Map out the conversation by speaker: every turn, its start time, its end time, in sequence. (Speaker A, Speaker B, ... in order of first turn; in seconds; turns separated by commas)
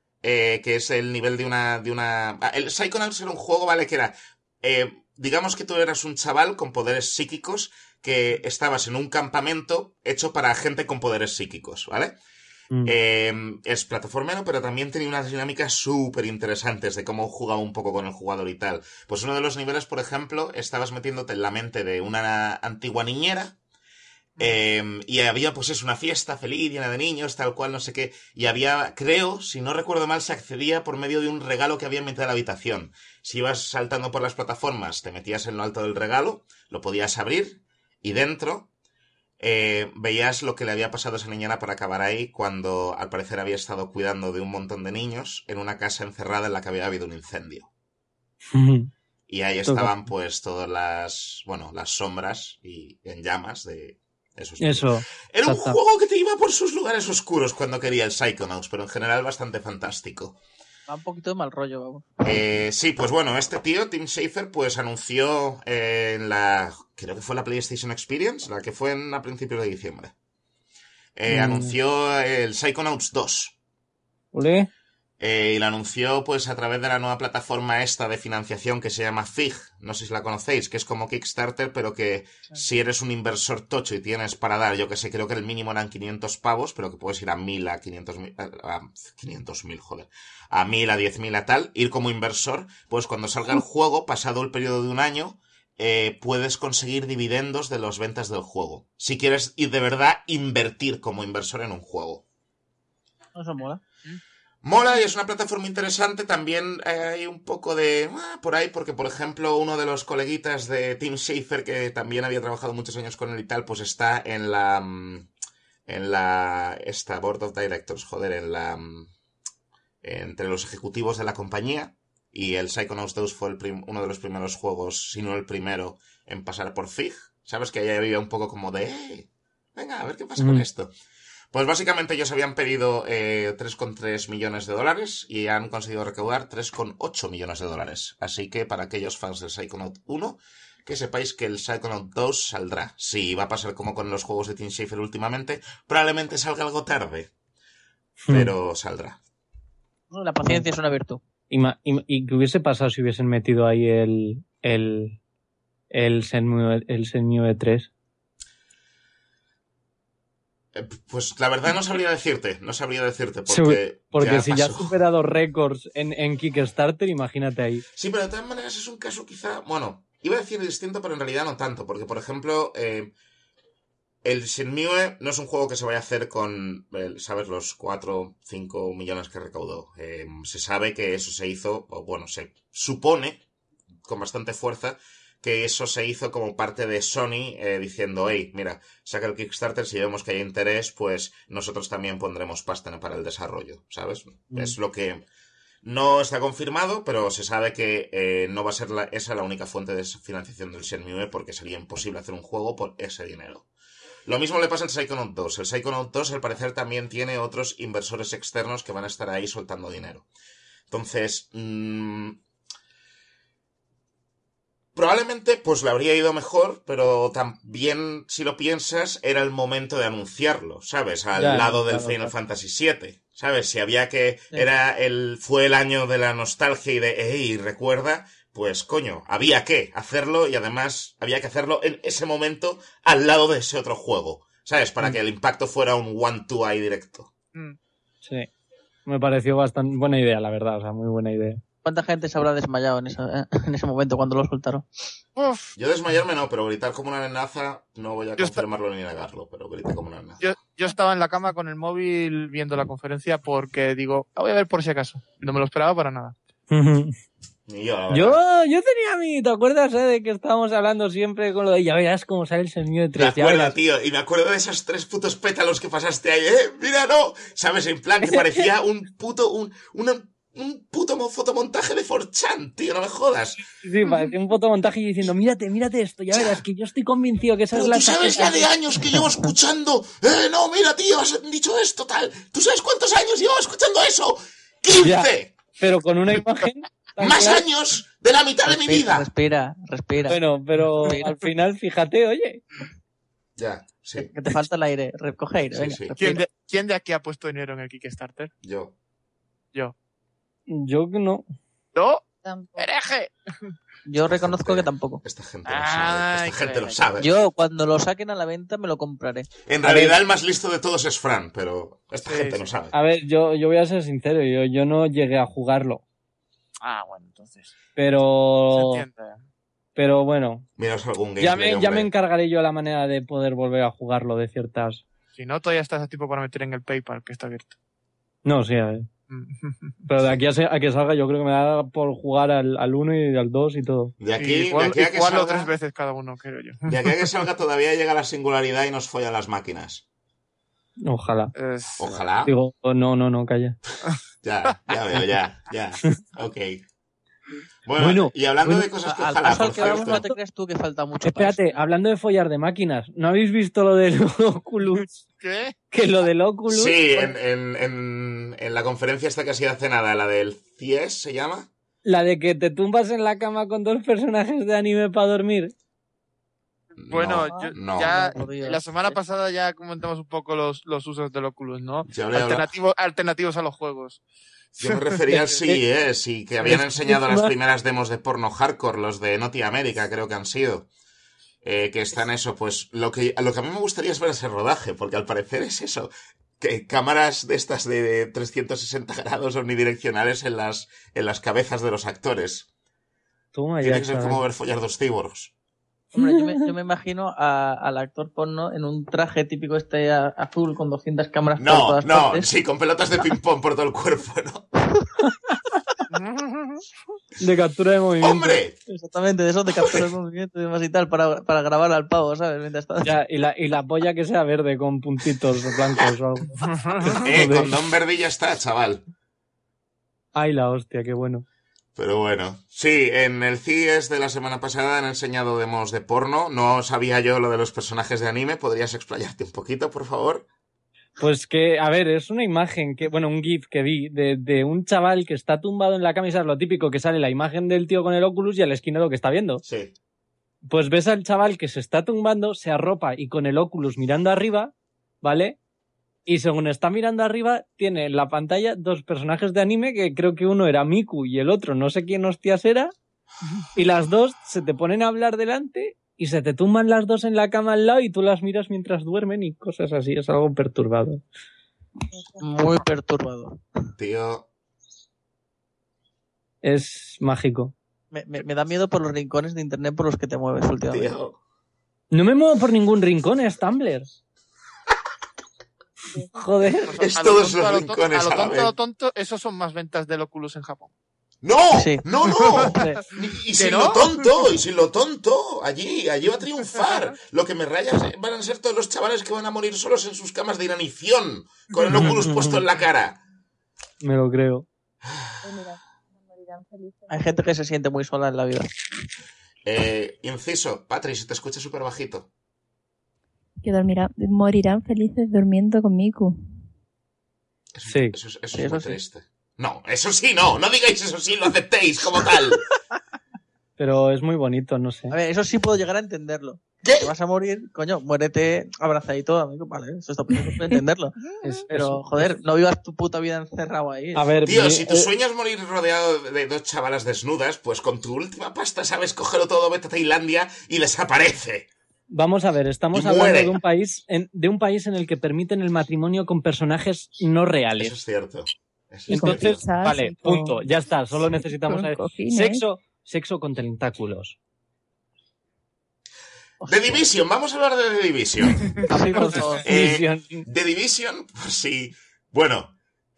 Speaker A: 0.2-12.1, Speaker A: 12.8-23.6, Speaker A: 24.4-38.7, Speaker A: 39.4-47.7, Speaker B: 48.5-48.9, Speaker A: 49.3-60.4, Speaker B: 49.6-50.0, Speaker B: 54.6-55.8, Speaker C: 60.9-62.4, Speaker A: 62.2-70.1, Speaker A: 71.2-73.5, Speaker B: 71.3-71.7, Speaker B: 74.3-74.7, Speaker A: 75.2-102.2, Speaker C: 103.3-103.8, Speaker A: 104.6-115.3, Speaker A: 115.9-119.1, Speaker A: 120.0-130.9, Speaker B: 130.4-130.7, Speaker A: 131.5-147.3, Speaker B: 148.2-148.5, Speaker A: 148.3-149.2, Speaker C: 150.1-151.2, Speaker B: 151.5-155.2, Speaker B: 155.9-157.9, Speaker A: 160.7-164.9, Speaker B: 163.5-167.8, Speaker A: 167.9-173.1, Speaker A: 174.2-183.4, Speaker A: 184.0-195.2, Speaker A: 195.8-203.7, Speaker A: 204.2-210.2, Speaker A: 210.9-212.4, Speaker A: 214.9-237.3, Speaker B: 221.3-222.3, Speaker B: 238.2-238.5, Speaker B: 239.1-241.6, Speaker C: 241.8-245.1, Speaker D: 245.3-245.7, Speaker A: 245.7-250.4, Speaker D: 248.4-248.6, Speaker D: 250.4-256.4, Speaker B: 256.7-257.1, Speaker A: 257.7-258.4, Speaker B: 258.1-263.7, Speaker A: 263.1-273.6, Speaker B: 268.2-268.7, Speaker B: 273.8-279.2, Speaker A: 276.3-276.6, Speaker A: 277.7-285.5, Speaker B: 285.0-287.6, Speaker A: 287.2-289.3, Speaker C: 288.7-290.4, Speaker B: 290.3-292.6, Speaker C: 291.0-291.3, Speaker A: 293.6-294.3, Speaker C: 294.2-296.4, Speaker A: 295.7-296.2, Speaker D: 296.1-298.5, Speaker A: 298.6-298.9, Speaker B: 300.7-301.4, Speaker D: 301.9-303.3, Speaker E: 302.4-302.8, Speaker C: 304.1-305.2, Speaker A: 304.2-307.3, Speaker D: 305.6-307.0, Speaker C: 307.2-309.5, Speaker A: 309.6-312.9, Speaker B: 309.8-310.1, Speaker D: 312.2-312.7, Speaker B: 312.9-316.0, Speaker D: 316.8-317.7, Speaker B: 317.9-319.0, Speaker D: 318.7-319.4, Speaker B: 319.9-320.6, Speaker A: 320.8-322.1, Speaker B: 321.4-325.0, Speaker D: 325.4-327.7, Speaker B: 328.4-329.1, Speaker D: 329.3-329.8, Speaker B: 330.1-334.1, Speaker A: 334.2-335.7, Speaker D: 334.4-337.2, Speaker A: 336.9-340.0, Speaker B: 341.0-341.5, Speaker D: 341.5-342.2, Speaker A: 342.0-342.5, Speaker B: 342.4-343.8, Speaker A: 343.9-346.8, Speaker A: 347.8-350.3, Speaker B: 348.0-348.9, Speaker C: 349.0-351.6, Speaker B: 349.6-350.4, Speaker B: 351.2-355.2, Speaker D: 355.4-355.7, Speaker B: 355.9-357.3, Speaker A: 356.7-361.7, Speaker B: 362.0-365.7, Speaker A: 367.0-368.3, Speaker D: 367.1-374.2, Speaker C: 367.4-369.1, Speaker A: 372.1-372.7, Speaker D: 374.8-375.8, Speaker A: 374.8-380.9, Speaker B: 376.6-377.5, Speaker A: 381.6-392.7, Speaker B: 393.5-394.4, Speaker A: 393.8-395.5, Speaker B: 396.1-396.7, Speaker C: 396.1-402.5, Speaker A: 401.6-404.7, Speaker D: 406.1-406.8, Speaker B: 407.4-408.6, Speaker A: 408.2-408.8, Speaker C: 408.9-413.2, Speaker A: 409.8-410.1, Speaker B: 413.0-417.7, Speaker D: 416.6-417.2, Speaker A: 417.2-419.0, Speaker B: 420.3-421.4, Speaker A: 421.9-430.4, Speaker B: 431.2-439.6, Speaker A: 439.6-439.9, Speaker B: 440.6-445.6, Speaker B: 446.2-452.9, Speaker B: 453.7-461.2, Speaker E: 462.2-462.4, Speaker C: 462.4-463.6, Speaker A: 464.0-464.5, Speaker B: 466.6-467.7, Speaker C: 468.1-471.1, Speaker A: 470.9-471.4, Speaker B: 472.1-474.1, Speaker B: 476.3-477.0, Speaker D: 476.9-480.9, Speaker A: 477.0-478.7, Speaker A: 481.4-493.2, Speaker C: 481.7-482.1, Speaker D: 482.2-482.9, Speaker C: 482.6-483.0, Speaker D: 483.5-484.2, Speaker B: 491.9-492.6, Speaker B: 494.0-494.6, Speaker A: 495.1-495.4, Speaker E: 495.4-497.4, Speaker C: 497.1-498.8, Speaker A: 499.6-502.3, Speaker E: 503.6-506.4, Speaker A: 507.7-512.7, Speaker B: 507.9-508.1, Speaker C: 508.5-509.0, Speaker B: 513.8-515.2, Speaker C: 515.1-524.4, Speaker A: 516.8-517.1, Speaker B: 521.4-522.3, Speaker B: 524.1-525.1, Speaker A: 524.5-531.7, Speaker B: 532.1-537.9, Speaker A: 532.9-533.6, Speaker A: 537.8-539.7, Speaker E: 539.1-540.6, Speaker B: 539.1-544.4, Speaker E: 541.7-542.6, Speaker C: 546.6-547.0, Speaker A: 546.7-548.9, Speaker C: 548.9-549.6, Speaker D: 549.1-549.6, Speaker B: 549.2-550.5, Speaker A: 549.6-552.7